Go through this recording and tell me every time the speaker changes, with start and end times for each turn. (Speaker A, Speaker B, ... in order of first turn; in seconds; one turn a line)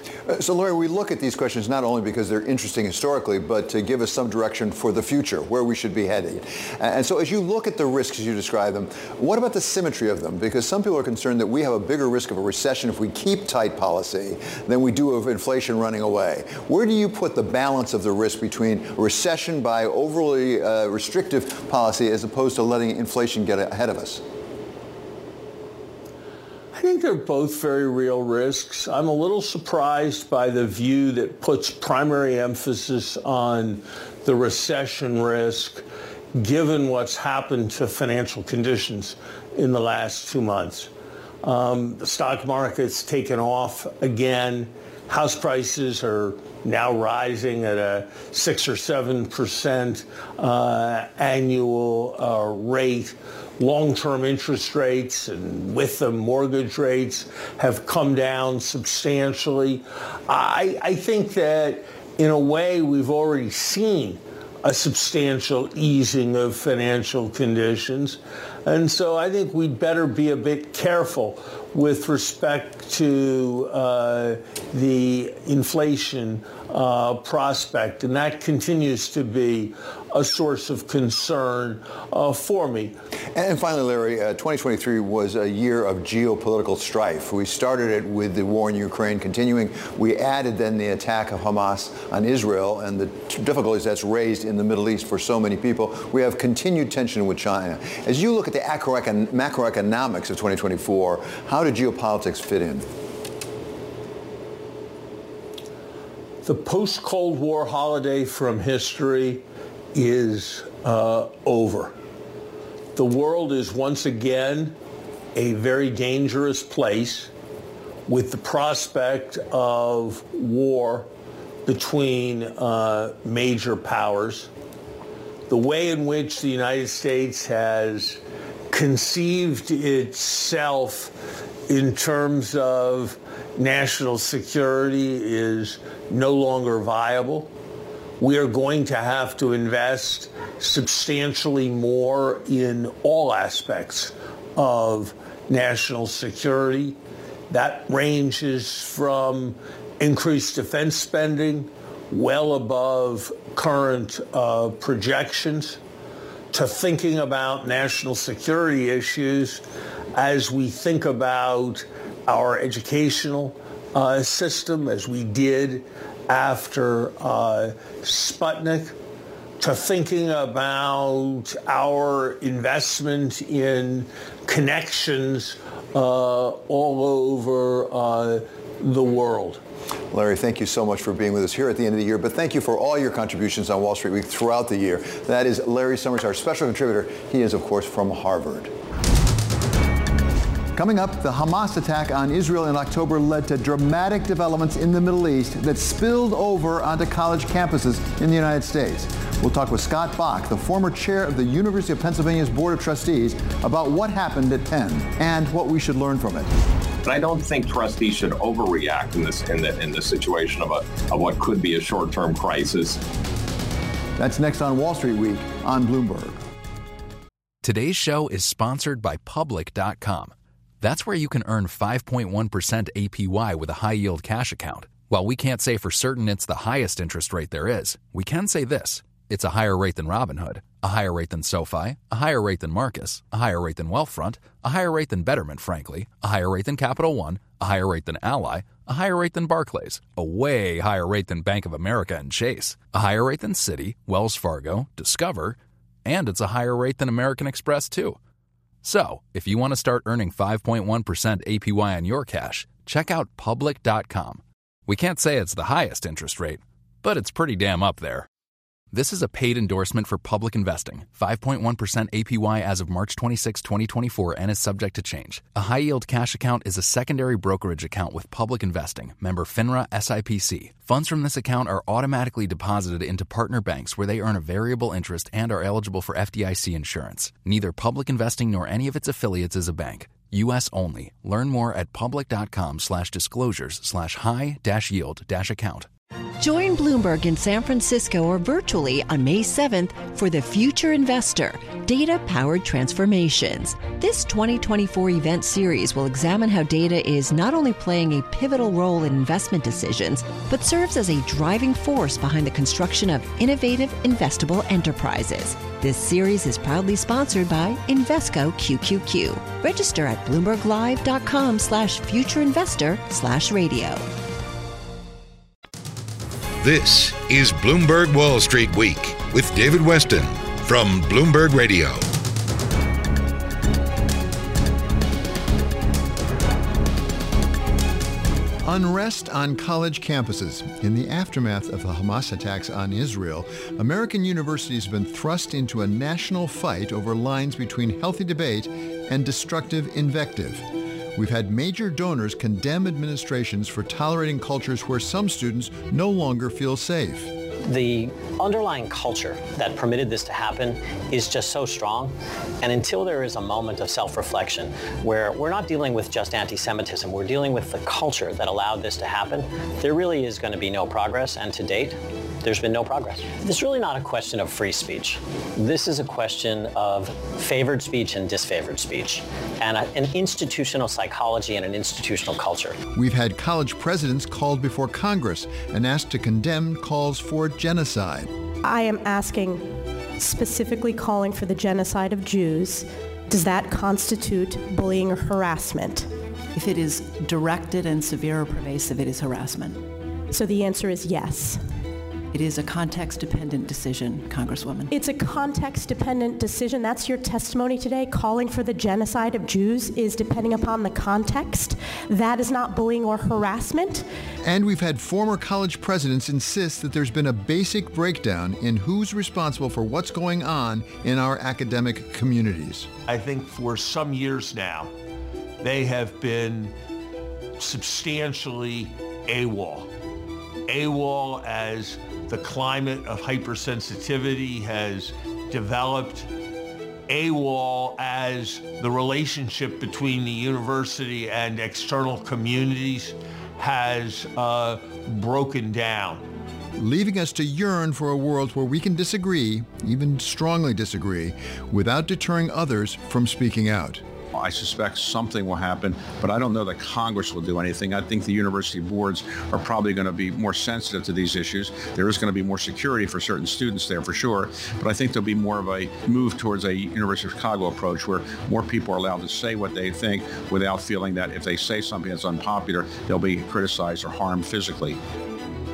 Speaker A: 0.2-24.2
Speaker B: 26.7-35.8
Speaker B: 36.4-40.9
Speaker B: 41.4-83.0
Speaker A: 83.3-102.9
Speaker B: 106.4-109.4
Speaker B: 109.9-111.9
Speaker B: 112.9-114.8
Speaker B: 115.3-117.3
Speaker B: 118.1-121.1
Speaker B: 121.7-124.5
Speaker B: 125.5-128.2
Speaker B: 128.7-131.1
Speaker B: 131.7-137.5
Speaker B: 138.2-147.0
Speaker B: 147.5-155.8
Speaker B: 156.5-159.6
Speaker B: 160.1-168.9
Speaker B: 169.6-179.6
Speaker A: 180.1-188.7
Speaker A: 190.7-206.5
Speaker C: 207.0-213.0
Speaker A: 214.2-216.4
Speaker D: 217.6-248.2
Speaker D: 248.8-258.3
Speaker D: 258.9-285.9
Speaker E: 286.4-314.1
Speaker F: 316.6-322.0
Speaker A: 328.6-347.3
Speaker G: 347.7-372.8
Speaker A: 372.9-378.3
Speaker H: 378.6-386.1
Speaker I: 386.5-389.8
Speaker H: 390.3-391.6
Speaker I: 392.3-394.9
Speaker H: 394.9-404.1
Speaker A: 404.4-412.9
Speaker B: 413.1-414.9
Speaker B: 415.6-416.7
Speaker B: 417.6-419.9
Speaker B: 420.7-426.3
Speaker B: 427.1-436.2
Speaker A: 436.8-444.0
Speaker J: 444.3-465.0